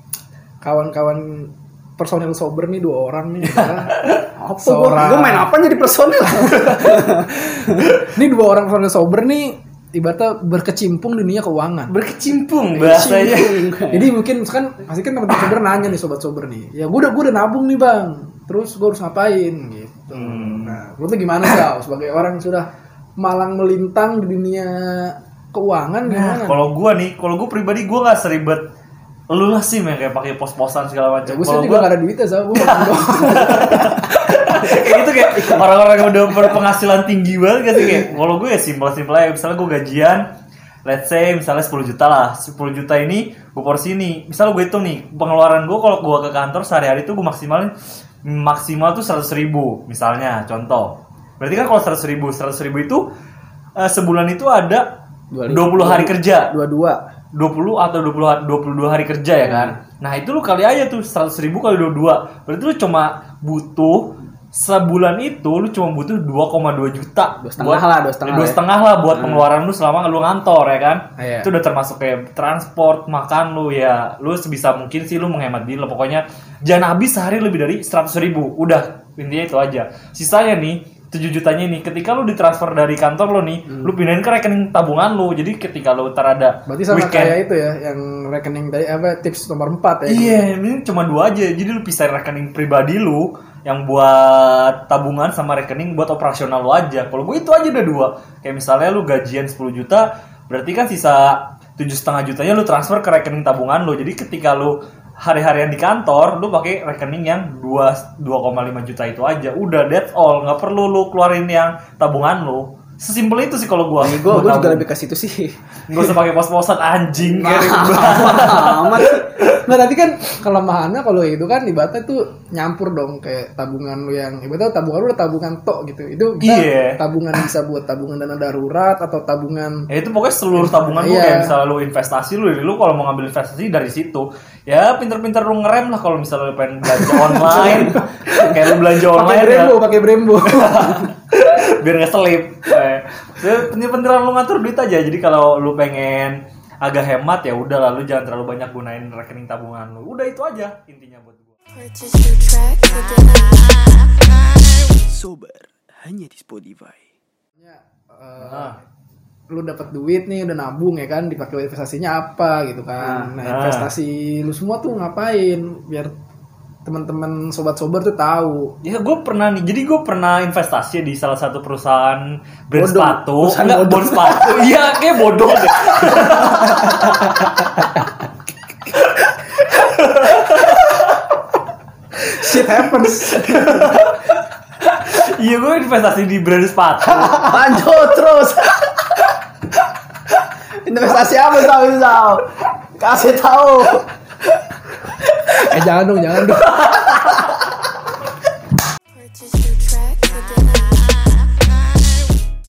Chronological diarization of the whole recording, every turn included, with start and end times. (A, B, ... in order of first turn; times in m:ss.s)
0:00.6-0:04.0 A
0:03.6-0:04.2 B
0:04.4-0:07.3 C
0:04.6-0:05.5 A
0:06.6-0:12.0 A
0:11.9-0:13.7 B
0:12.7-0:14.1 C
0:13.9-0:26.6 A
0:20.1-0:20.8 B
0:26.1-0:28.7 B
0:29.3-0:31.9 B
0:31.2-0:34.1 A
0:32.6-0:40.2 B
0:40.8-0:47.7 B
0:48.2-0:53.1 B
0:53.8-0:54.9 B
0:55.5-0:56.6 B
0:55.5-0:57.0 C
0:57.3-1:27.4 B
1:07.5-1:08.6 C
1:26.7-1:30.4 A
1:30.1-1:54.9 B
1:54.0-1:56.2 C
1:55.9-1:59.6 B
1:57.4-1:59.2 C
1:59.5-2:09.9 A
2:06.4-2:07.0 B
2:09.9-2:19.8 B
2:10.6-2:11.5 A
2:17.0-2:21.1 A
2:20.4-2:31.6 B
2:31.7-2:34.3 D
2:35.1-2:37.0 E
2:37.6-2:38.8 A
2:38.4-2:38.8 B
2:39.5-2:46.1 A
2:43.4-2:43.9 B
2:46.9-2:48.8 A
2:48.8-2:57.8 B
2:52.8-2:54.6 C
2:59.7-3:00.9 B
3:02.6-3:03.0 E
3:02.7-3:03.2 A
3:03.0-3:03.7 C
3:03.1-3:04.2 B
3:04.9-3:07.7 B
3:07.5-3:08.9 C
3:10.9-3:12.5 C
3:13.0-3:14.1 C
3:15.5-3:17.0 A
3:19.2-3:21.4 D